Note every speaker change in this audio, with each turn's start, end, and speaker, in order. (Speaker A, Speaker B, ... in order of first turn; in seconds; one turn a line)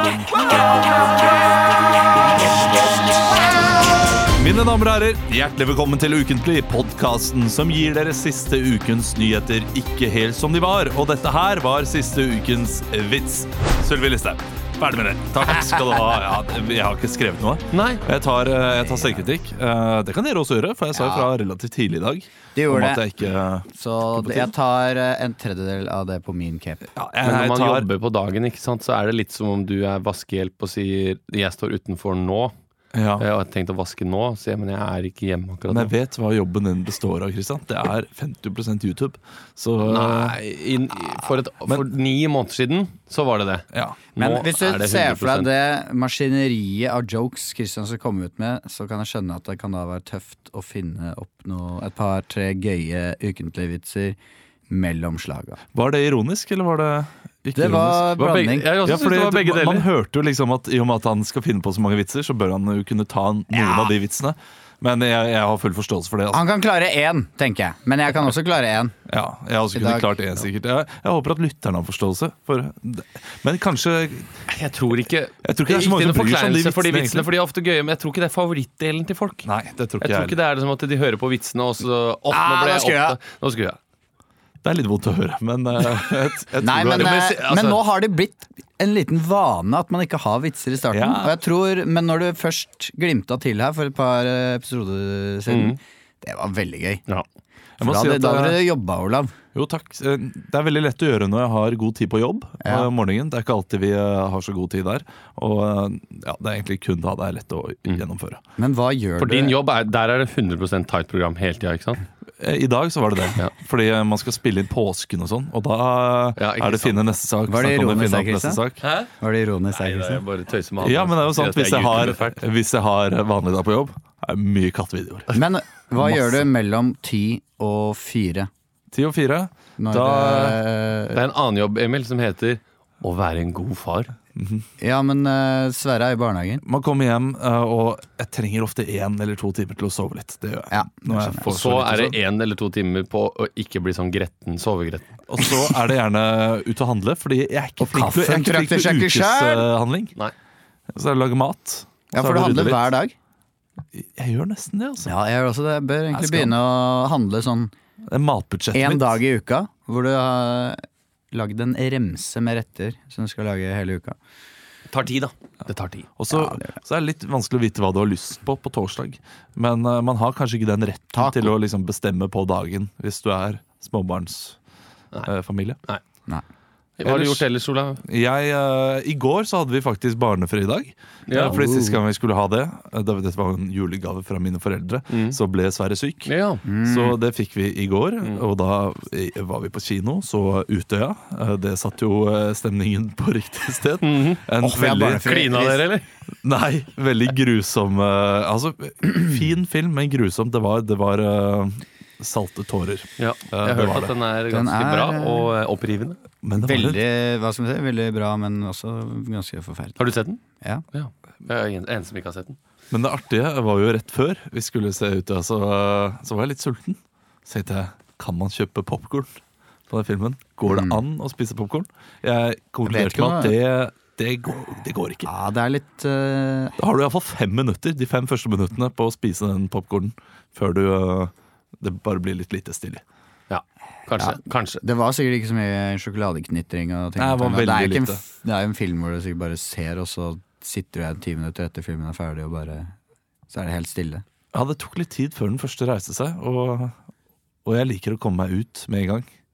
Speaker A: 2.3-2.7
Speaker A: 4.3-24.5
Speaker B: 17.7-18.0
Speaker C: 18.8-19.2
Speaker C: 20.9-21.3
Speaker C: 22.6-23.0
Speaker C: 23.7-26.9
Speaker A: 26.9-27.9
Speaker B: 27.2-32.5
Speaker A: 32.9-33.3
Speaker B: 33.2-35.9
Speaker A: 35.7-40.4
Speaker B: 39.8-45.5
Speaker A: 43.7-44.0
Speaker C: 44.2-54.2
Speaker C: 54.7-55.6
Speaker A: 55.7-58.1
Speaker C: 57.5-58.7
Speaker B: 58.2-59.9
Speaker A: 58.8-66.4
Speaker C: 63.5-63.9
Speaker C: 66.3-69.0
Speaker A: 69.1-74.4
Speaker C: 69.7-70.1
Speaker B: 74.5-79.5
Speaker A: 75.4-77.3
Speaker A: 79.4-80.4
Speaker B: 80.0-83.8
Speaker C: 82.3-83.2
Speaker A: 84.6-87.2
Speaker C: 86.6-97.0
Speaker B: 87.0-87.8
Speaker A: 90.9-91.4
Speaker B: 95.5-95.8
Speaker A: 97.8-98.6
Speaker C: 97.8-99.3
Speaker A: 99.5-108.4
Speaker C: 102.6-102.9
Speaker C: 108.6-109.6
Speaker B: 109.2-112.0
Speaker A: 112.4-118.8
Speaker B: 116.4-117.2
Speaker C: 117.5-118.6
Speaker B: 118.8-119.1
Speaker C: 119.2-120.2
Speaker B: 119.7-122.4
Speaker A: 120.8-125.3
Speaker C: 125.3-128.5
Speaker A: 126.0-126.4
Speaker A: 128.9-130.6
Speaker C: 129.8-131.2
Speaker B: 131.1-134.1
Speaker A: 134.4-134.7
Speaker C: 134.8-136.6
Speaker A: 136.6-142.2
Speaker C: 140.7-141.5
Speaker B: 141.4-145.2
Speaker A: 145.3-150.1
Speaker C: 147.8-149.7
Speaker A: 150.9-152.9
Speaker C: 152.1-153.1
Speaker A: 153.9-155.2
Speaker C: 155.1-157.7
Speaker A: 156.1-156.6
Speaker A: 158.1-159.2
Speaker C: 158.7-164.2
Speaker B: 164.9-166.1
Speaker A: 166.2-174.6
Speaker C: 166.3-166.8
Speaker C: 171.1-171.5
Speaker A: 175.2-175.8
Speaker B: 177.0-178.0
Speaker A: 177.0-177.4
Speaker A: 178.0-186.3
Speaker B: 181.3-181.6
Speaker C: 181.3-182.0
Speaker B: 185.1-185.4
Speaker B: 186.3-186.6
Speaker C: 186.7-187.2
Speaker A: 186.8-195.2
Speaker B: 194.0-194.4
Speaker C: 194.6-195.9
Speaker B: 195.2-196.0
Speaker A: 196.4-204.1
Speaker B: 203.2-206.2
Speaker C: 204.5-205.5
Speaker A: 206.4-207.0
Speaker C: 206.6-210.0
Speaker B: 210.0-210.4
Speaker B: 210.9-212.6
Speaker A: 212.9-225.3
Speaker C: 220.7-221.0
Speaker C: 222.9-223.5
Speaker C: 225.3-226.8
Speaker A: 226.8-233.0
Speaker B: 233.5-234.8
Speaker C: 234.2-242.9
Speaker A: 237.2-238.2
Speaker C: 243.5-244.2
Speaker A: 244.5-247.0
Speaker A: 247.7-249.3